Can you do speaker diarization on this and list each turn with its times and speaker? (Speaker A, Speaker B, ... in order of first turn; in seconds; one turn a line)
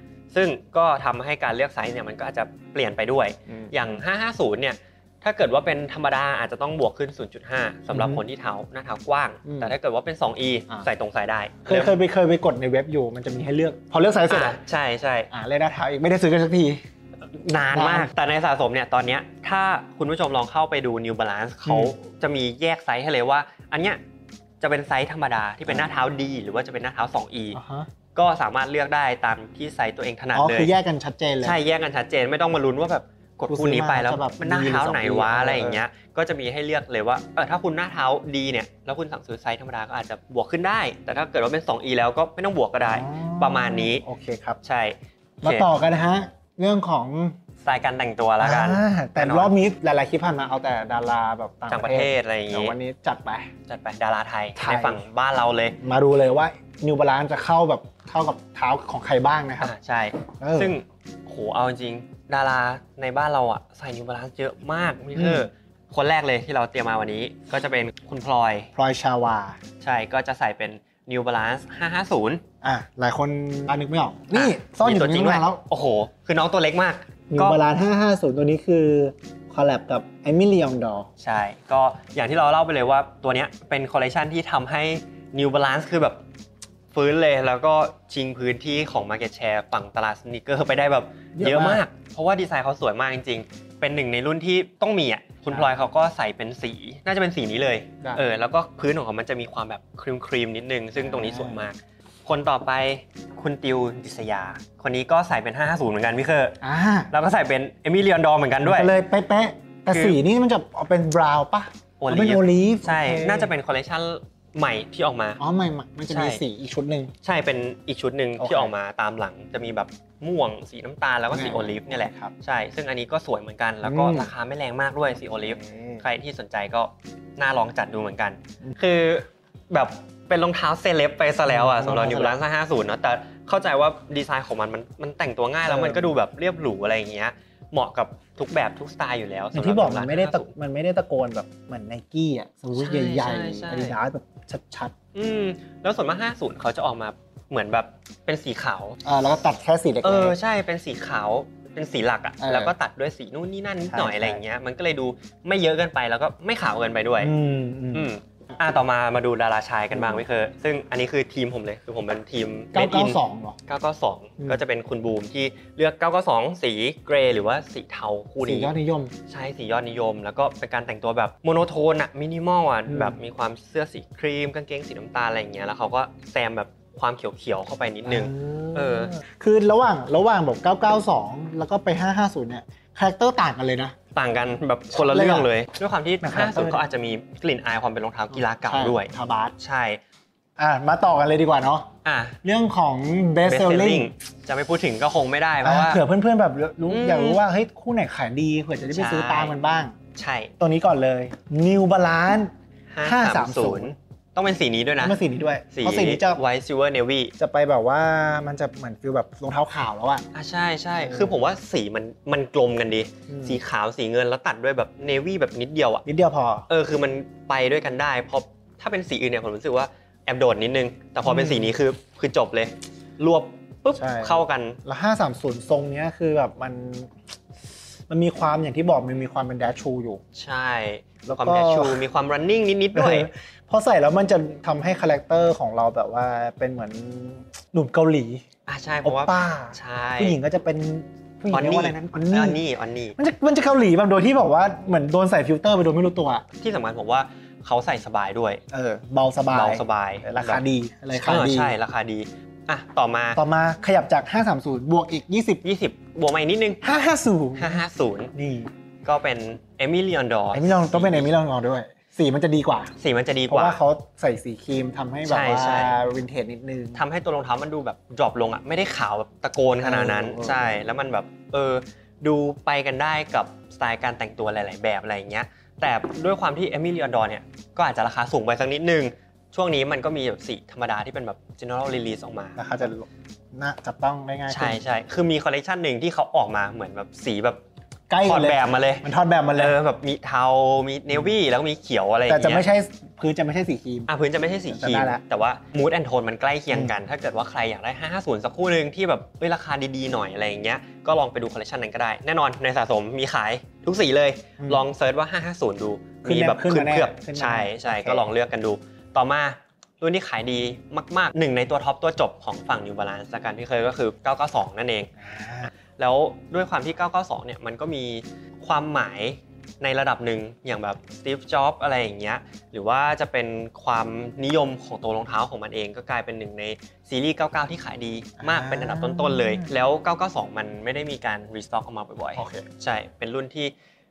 Speaker A: 0.3-11.9
Speaker B: 3.5-4.0
Speaker B: 7.9-8.2
Speaker B: 9.4-9.7
Speaker B: 11.7-14.6
Speaker A: 14.3-15.3
Speaker B: 15.3-16.8
Speaker A: 17.3-24.0
Speaker B: 17.7-18.1
Speaker B: 21.6-21.9
Speaker A: 24.6-27.6
Speaker B: 27.5-27.9
Speaker A: 28.1-30.7
Speaker B: 30.3-31.6
Speaker A: 31.4-44.0
Speaker B: 33.5-35.8
Speaker B: 42.8-44.6
Speaker A: 44.6-45.7
Speaker B: 45.4-47.4
Speaker A: 47.6-49.5
Speaker B: 48.4-53.5
Speaker A: 51.7-52.8
Speaker A: 53.7-55.8
Speaker B: 54.6-55.0
Speaker B: 55.8-59.7
Speaker A: 59.6-68.7
Speaker B: 60.4-60.8
Speaker B: 65.1-65.5
Speaker B: 68.8-69.6
Speaker A: 69.8-72.4
Speaker B: 72.6-75.6
Speaker A: 74.3-77.6
Speaker B: 77.3-81.1
Speaker A: 81.2-86.2
Speaker A: 86.9-106.6
Speaker B: 91.3-91.8
Speaker B: 95.5-95.8
Speaker B: 101.0-101.6
Speaker B: 106.6-107.1
Speaker A: 107.1-108.9
Speaker B: 108.6-113.5
Speaker A: 109.9-110.2
Speaker A: 112.0-115.4
Speaker B: 115.4-117.1
Speaker A: 116.1-116.4
Speaker A: 117.2-140.5
Speaker B: 118.4-118.7
Speaker B: 121.3-122.3
Speaker B: 123.8-124.3
Speaker B: 125.4-126.0
Speaker B: 131.5-132.4
Speaker B: 135.7-136.1
Speaker B: 139.5-144.9
Speaker A: 142.7-144.0
Speaker A: 145.1-149.0
Speaker B: 149.0-150.4
Speaker A: 150.0-157.3
Speaker B: 152.4-152.7
Speaker B: 153.9-154.4
Speaker B: 157.2-158.1
Speaker A: 157.9-168.7
Speaker B: 159.9-160.2
Speaker B: 162.7-163.6
Speaker B: 168.4-169.1
Speaker A: 169.3-179.1
Speaker B: 172.9-173.2
Speaker B: 178.0-184.0
Speaker A: 184.1-190.0
Speaker B: 184.9-185.5
Speaker B: 186.2-186.8
Speaker B: 188.3-189.5
Speaker B: 190.6-191.9
Speaker A: 192.0-192.4
Speaker B: 192.4-194.1
Speaker A: 193.5-196.0
Speaker B: 195.6-200.0
Speaker A: 196.9-197.4
Speaker A: 198.9-199.6
Speaker A: 200.1-200.5
Speaker B: 200.6-202.5
Speaker A: 202.9-205.2
Speaker B: 203.0-204.0
Speaker B: 205.0-206.4
Speaker A: 205.7-207.3
Speaker B: 207.4-210.2
Speaker A: 210.3-216.0
Speaker B: 211.0-211.4
Speaker B: 213.3-213.6
Speaker B: 216.1-216.7
Speaker A: 216.7-224.8
Speaker B: 221.2-221.8
Speaker B: 223.9-227.1
Speaker B: 228.1-230.2
Speaker A: 230.3-233.3
Speaker B: 231.2-232.0
Speaker B: 232.9-238.4
Speaker A: 238.7-240.4
Speaker B: 239.0-242.6
Speaker A: 241.5-243.2
Speaker B: 243.2-246.4
Speaker A: 246.6-248.6
Speaker B: 248.7-251.8
Speaker A: 249.5-253.4
Speaker B: 253.3-255.6
Speaker A: 255.6-256.8
Speaker B: 256.8-257.8
Speaker A: 257.6-258.3
Speaker B: 258.3-258.7
Speaker A: 259.0-261.3
Speaker B: 260.5-262.9
Speaker A: 263.0-263.8
Speaker B: 263.5-267.0
Speaker A: 265.2-266.0
Speaker A: 266.9-282.6
Speaker B: 269.8-270.8
Speaker B: 282.6-284.8
Speaker A: 284.5-287.6
Speaker B: 288.1-289.8
Speaker A: 288.2-292.6
Speaker B: 292.3-294.1
Speaker A: 294.1-315.1
Speaker B: 294.7-295.2
Speaker B: 304.6-304.8
Speaker B: 306.2-308.2
Speaker B: 315.2-315.7
Speaker A: 316.0-333.7
Speaker B: 328.4-329.7
Speaker B: 332.4-332.6